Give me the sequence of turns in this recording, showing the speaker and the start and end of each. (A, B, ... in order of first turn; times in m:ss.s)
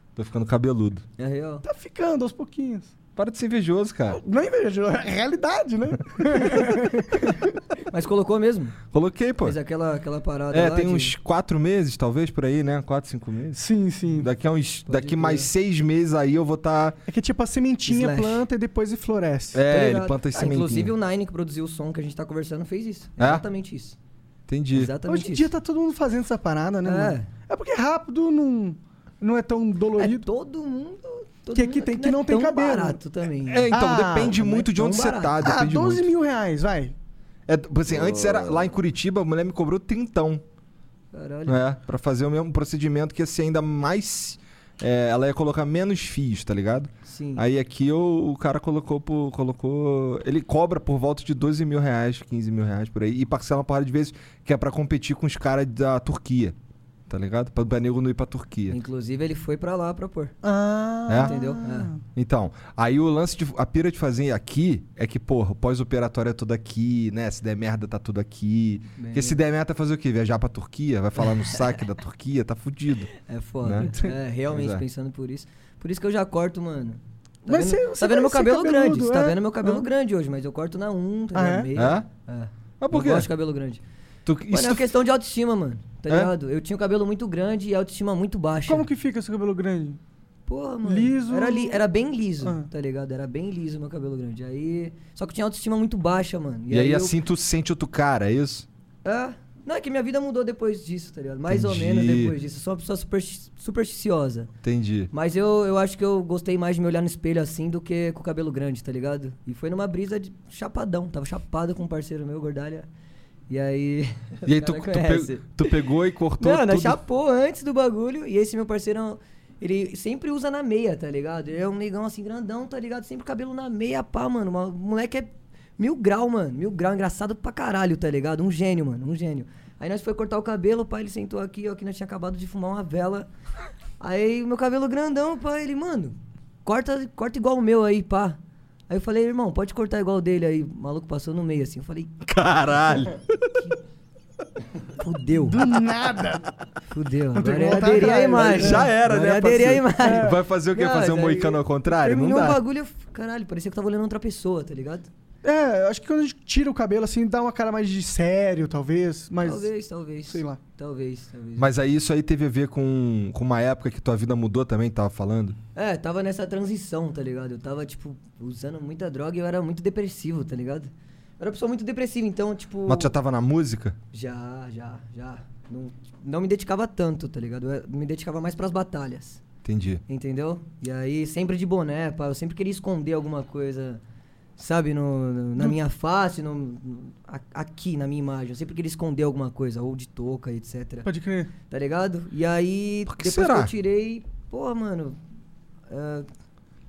0:00.2-0:01.0 A
0:01.2-0:01.6 B
0:01.6-0:02.9 C
0:03.2-0:04.2 A
0:04.1-0:07.5 C
0:07.9-0:08.8 B
0:08.9-0:09.6 A
0:09.4-0:11.1 B
0:10.5-0:17.0 A
0:13.5-0:14.3 C
0:14.8-0:15.5 B
0:17.1-0:19.6 C
0:17.8-0:18.4 B
0:19.5-0:20.9 A
0:19.7-0:24.0 B
0:23.2-0:23.4 A
0:24.5-0:24.9 A
0:24.7-0:25.5 B
0:25.0-0:30.3 C
0:26.8-0:27.3 B
0:30.0-0:35.4 B
0:31.5-0:33.0 C
0:33.4-0:36.1 A
0:33.7-0:34.4 C
0:35.4-0:36.9 C
0:37.5-0:40.4 A
0:37.9-0:38.7 B
0:41.1-0:41.6 B
0:41.5-0:56.5 A
0:47.0-0:47.4 B
0:57.1-0:58.8 A
0:58.7-1:00.3 B
1:00.4-1:02.0 C
1:01.1-1:01.3 A
1:01.2-1:01.9 B
1:02.1-1:14.8 A
1:09.0-1:09.4 B
1:13.2-1:23.8 B
1:17.5-1:19.8 C
1:21.3-1:21.7 C
1:21.8-1:22.0 A
1:22.8-1:23.3 A
1:24.2-1:24.9 A
1:24.5-1:28.9 B
1:28.7-1:30.0 C
1:30.5-1:37.2 B
1:30.8-1:31.8 C
1:32.4-1:32.7 C
1:36.7-1:38.7 A
1:39.0-1:44.5 B
1:41.5-1:42.3 A
1:44.6-1:45.1 A
1:45.1-1:52.9 B
1:53.5-1:55.8 B
1:54.4-1:57.0 A
1:56.4-2:13.3 B
2:14.0-2:22.1 B
2:22.3-2:23.5 A
2:24.9-2:25.7 B
2:25.4-2:26.4 C
2:26.9-2:35.1 B
2:27.3-2:28.9 C
2:28.4-2:32.6 A
2:30.0-2:30.4 C
2:35.4-2:39.7 C
2:39.4-2:41.7 B
2:40.3-2:40.6 C
2:41.6-2:45.6 A
2:45.7-2:53.1 B
2:52.9-2:54.0 A
2:54.1-2:59.4 B
2:59.6-3:00.0 A
3:00.1-3:04.0 B
3:04.6-3:11.1 B
3:11.0-3:11.5 C
3:11.7-3:15.2 B
3:13.1-3:13.7 A
3:15.9-3:16.3 B